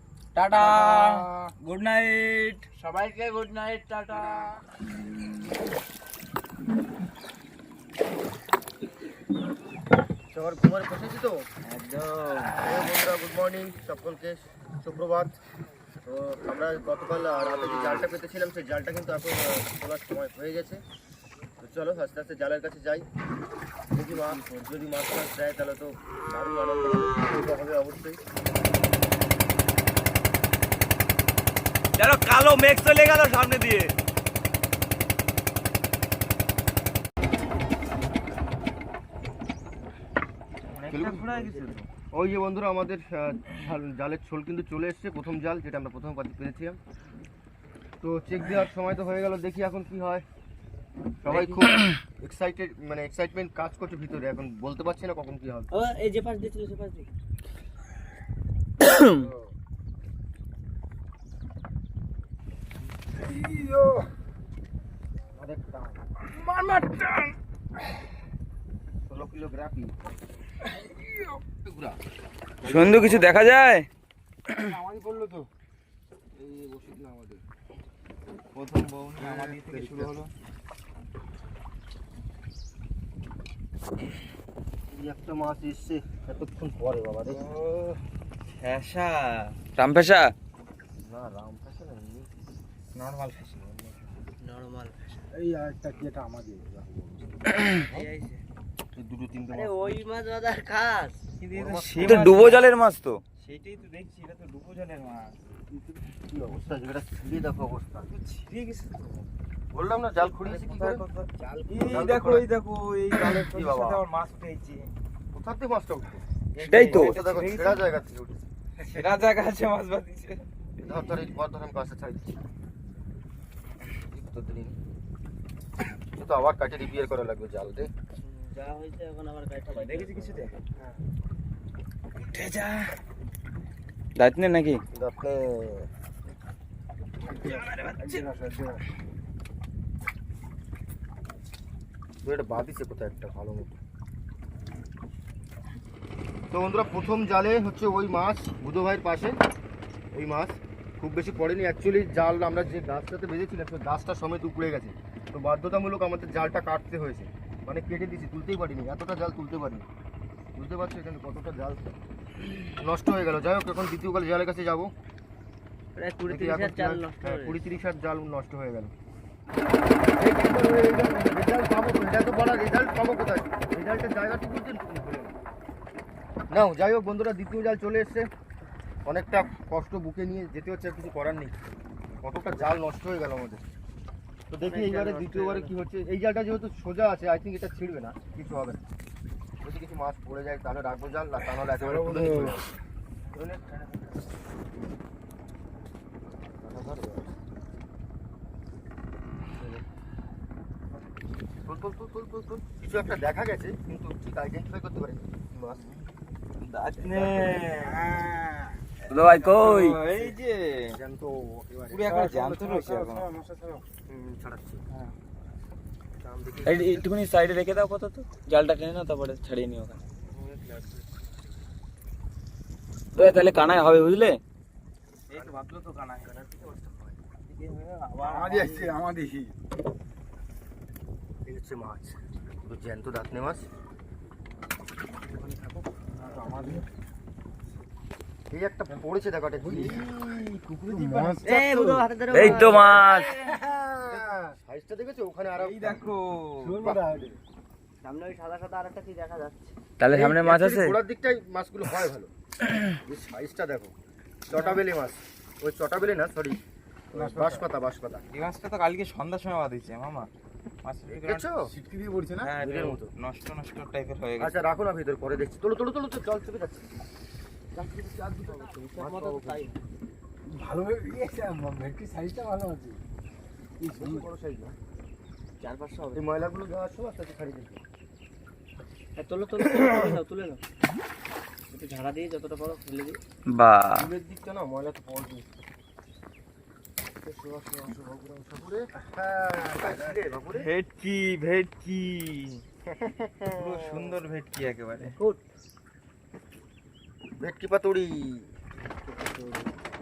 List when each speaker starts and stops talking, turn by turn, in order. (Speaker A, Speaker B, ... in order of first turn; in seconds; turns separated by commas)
Speaker A: 0.3-2.6, Speaker B: 0.6-1.5, Speaker C: 2.8-4.6, Speaker D: 10.3-11.5, Speaker A: 11.6-12.6, Speaker D: 12.6-15.3, Speaker D: 16.1-20.8, Speaker D: 21.6-23.1, Speaker D: 23.9-28.2, Speaker A: 32.0-33.9, Speaker A: 40.7-41.9, Speaker D: 40.9-41.5, Speaker D: 42.1-46.8, Speaker D: 48.0-50.2, Speaker D: 51.2-55.7, Speaker A: 51.3-51.6, Speaker C: 55.7-57.1, Speaker B: 59.1-59.5, Speaker B: 63.2-64.1, Speaker D: 65.4-66.0, Speaker B: 66.3-67.3, Speaker D: 69.1-70.0, Speaker B: 70.6-71.4, Speaker D: 71.6-72.0, Speaker D: 72.6-73.4, Speaker E: 72.6-73.9, Speaker B: 74.5-75.5, Speaker D: 76.3-77.4, Speaker A: 78.5-80.3, Speaker D: 79.2-80.2, Speaker D: 84.9-87.4, Speaker A: 88.6-89.6, Speaker E: 89.8-90.3, Speaker D: 91.0-92.3, Speaker A: 92.9-93.6, Speaker D: 93.6-94.0, Speaker C: 94.4-95.2, Speaker B: 95.3-97.4, Speaker C: 97.8-98.4, Speaker D: 98.9-100.0, Speaker C: 99.5-101.2, Speaker A: 101.4-102.7, Speaker D: 101.5-102.6, Speaker E: 102.0-103.2, Speaker A: 103.4-105.4, Speaker D: 106.3-108.1, Speaker A: 108.1-109.2, Speaker D: 109.7-111.0, Speaker A: 110.4-114.9, Speaker C: 111.4-112.1, Speaker D: 111.8-112.5, Speaker D: 113.1-114.0, Speaker D: 115.3-118.4, Speaker A: 116.5-117.8, Speaker E: 116.7-117.2, Speaker A: 118.8-120.5, Speaker D: 120.8-122.4, Speaker D: 124.1-124.8, Speaker D: 126.1-127.9, Speaker C: 128.2-130.6, Speaker A: 129.7-130.5, Speaker A: 132.3-132.9, Speaker E: 134.2-134.8, Speaker D: 134.9-135.9, Speaker B: 137.3-138.9, Speaker A: 137.3-138.3, Speaker D: 142.2-143.8, Speaker D: 146.5-149.4, Speaker D: 150.1-159.9, Speaker D: 160.6-162.0, Speaker D: 162.8-164.9, Speaker C: 166.0-167.6, Speaker D: 166.3-168.9, Speaker D: 170.2-175.3, Speaker D: 176.5-178.3, Speaker D: 179.1-181.6, Speaker D: 182.2-183.6, Speaker D: 184.5-188.8, Speaker C: 184.6-185.8, Speaker D: 189.6-192.7, Speaker B: 191.8-192.7, Speaker D: 193.3-193.6, Speaker D: 196.6-197.3, Speaker D: 199.6-199.8, Speaker D: 201.7-205.3, Speaker A: 205.5-206.0, Speaker A: 206.6-208.1, Speaker B: 207.7-208.8, Speaker E: 209.1-210.0, Speaker A: 209.1-211.0, Speaker D: 209.9-210.4, Speaker D: 210.9-212.1, Speaker A: 211.9-213.3, Speaker B: 212.0-213.9, Speaker D: 214.1-214.8, Speaker D: 216.2-217.0, Speaker B: 216.6-216.9, Speaker E: 216.7-220.0, Speaker B: 220.6-221.0, Speaker E: 223.2-224.4, Speaker A: 225.3-226.6, Speaker A: 227.5-228.9, Speaker B: 228.2-229.5, Speaker D: 231.4-233.7, Speaker B: 235.4-236.9, Speaker D: 238.5-241.4, Speaker B: 239.6-240.2, Speaker B: 240.9-242.1, Speaker C: 241.4-243.0, Speaker E: 242.3-243.3, Speaker B: 243.3-244.6, Speaker D: 244.1-246.0, Speaker A: 245.6-246.8, Speaker B: 246.6-247.4, Speaker C: 248.0-249.8, Speaker E: 250.0-250.9, Speaker D: 250.1-252.3, Speaker D: 252.9-253.9, Speaker D: 254.5-256.6, Speaker D: 257.1-258.2, Speaker B: 257.1-257.6, Speaker A: 258.3-260.3, Speaker A: 260.8-261.4, Speaker D: 261.1-261.7, Speaker B: 261.7-262.5, Speaker A: 262.4-264.6, Speaker D: 262.6-263.1, Speaker D: 264.4-266.9, Speaker D: 267.7-269.6, Speaker C: 268.5-269.8, Speaker B: 270.5-273.0, Speaker B: 273.8-274.3, Speaker D: 273.9-274.8, Speaker C: 275.6-276.2, Speaker D: 276.1-277.8, Speaker C: 279.2-280.6, Speaker C: 281.7-283.2, Speaker E: 283.5-284.1, Speaker D: 283.9-285.5, Speaker D: 287.2-288.9, Speaker B: 288.9-290.2, Speaker D: 289.7-290.7, Speaker A: 290.5-292.6, Speaker D: 292.9-294.2, Speaker A: 293.6-295.1, Speaker C: 295.1-295.4, Speaker D: 297.4-298.5, Speaker D: 299.2-299.6